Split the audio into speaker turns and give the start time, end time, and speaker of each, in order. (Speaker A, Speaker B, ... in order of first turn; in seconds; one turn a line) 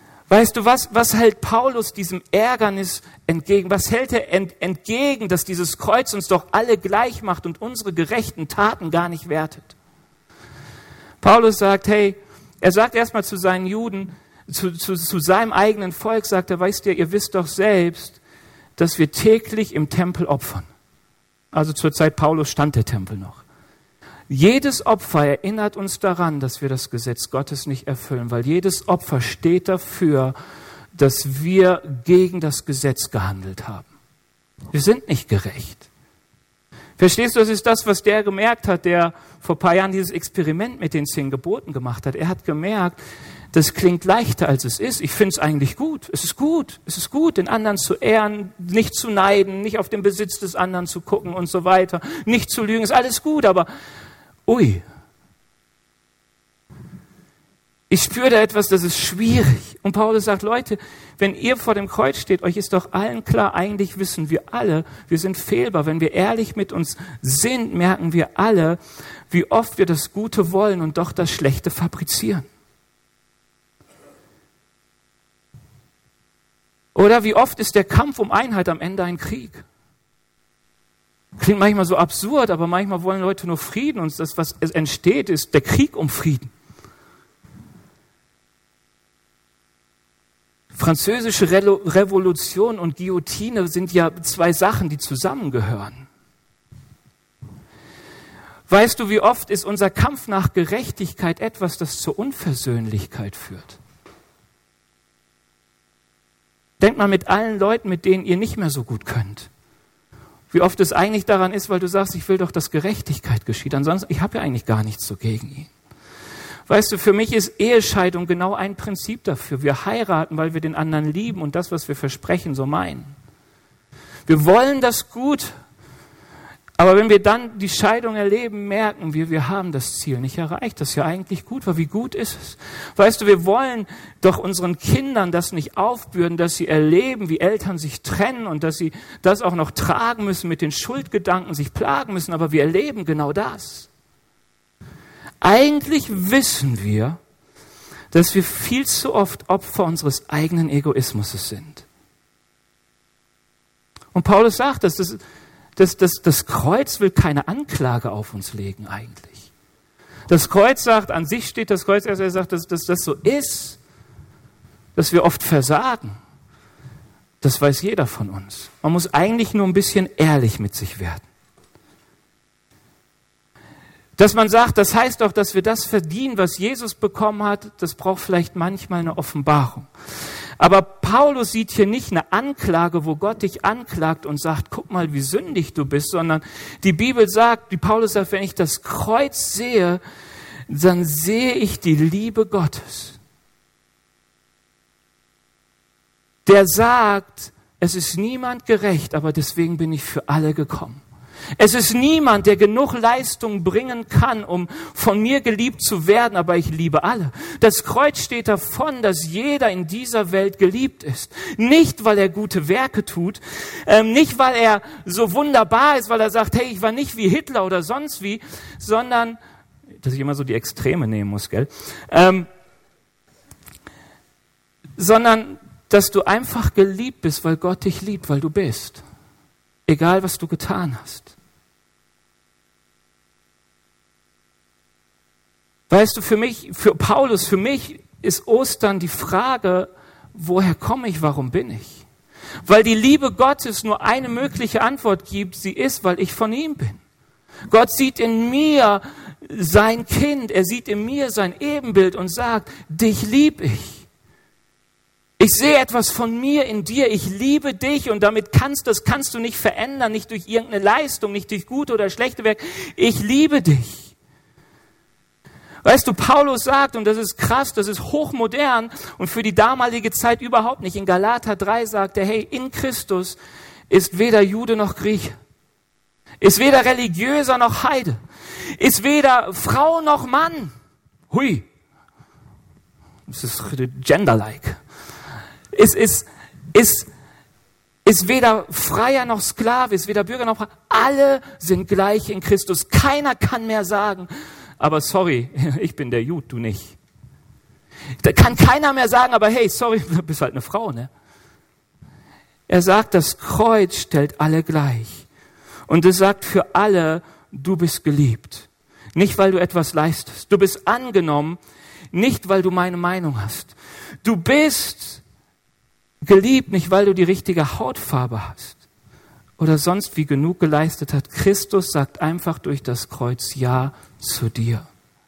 Speaker A: 0.3-9.7
Speaker A: 11.2-18.2
Speaker A: 18.8-20.7
Speaker A: 21.5-23.4
Speaker A: 24.3-30.3
Speaker A: 30.9-33.9
Speaker A: 34.7-35.9
Speaker A: 37.0-43.0
Speaker A: 43.5-53.7
Speaker A: 54.5-54.8
Speaker A: 57.9-68.8
Speaker A: 69.3-72.5
Speaker A: 76.9-79.6
Speaker A: 81.4-86.5
Speaker A: 90.7-96.0
Speaker A: 98.7-103.8
Speaker A: 106.8-109.5
Speaker A: 110.5-115.7
Speaker A: 116.7-123.1
Speaker A: 124.2-125.5
Speaker A: 126.8-143.9
Speaker A: 145.4-147.2
Speaker A: 148.1-151.8
Speaker A: 154.1-155.2
Speaker A: 155.8-159.4
Speaker A: 160.3-163.8
Speaker A: 164.9-166.2
Speaker A: 167.4-171.2
Speaker A: 174.2-179.9
Speaker A: 180.6-190.0
Speaker A: 190.7-193.2
Speaker A: 196.4-201.0
Speaker A: 201.6-219.4
Speaker A: 220.0-222.5
Speaker A: 225.0-229.0
Speaker A: 229.9-231.3
Speaker A: 235.9-242.0
Speaker A: 242.7-247.0
Speaker A: 247.7-254.1
Speaker A: 255.4-264.1
Speaker A: 265.8-273.4
Speaker A: 273.9-275.4
Speaker A: 276.4-278.2
Speaker A: 278.8-280.7
Speaker A: 281.3-281.6
Speaker A: 283.3-284.8
Speaker A: 285.7-287.1
Speaker A: 288.1-296.9
Speaker A: 298.2-301.1
Speaker A: 302.7-305.2
Speaker A: 305.9-311.6
Speaker A: 312.1-315.2
Speaker A: 316.2-318.8
Speaker A: 319.6-324.9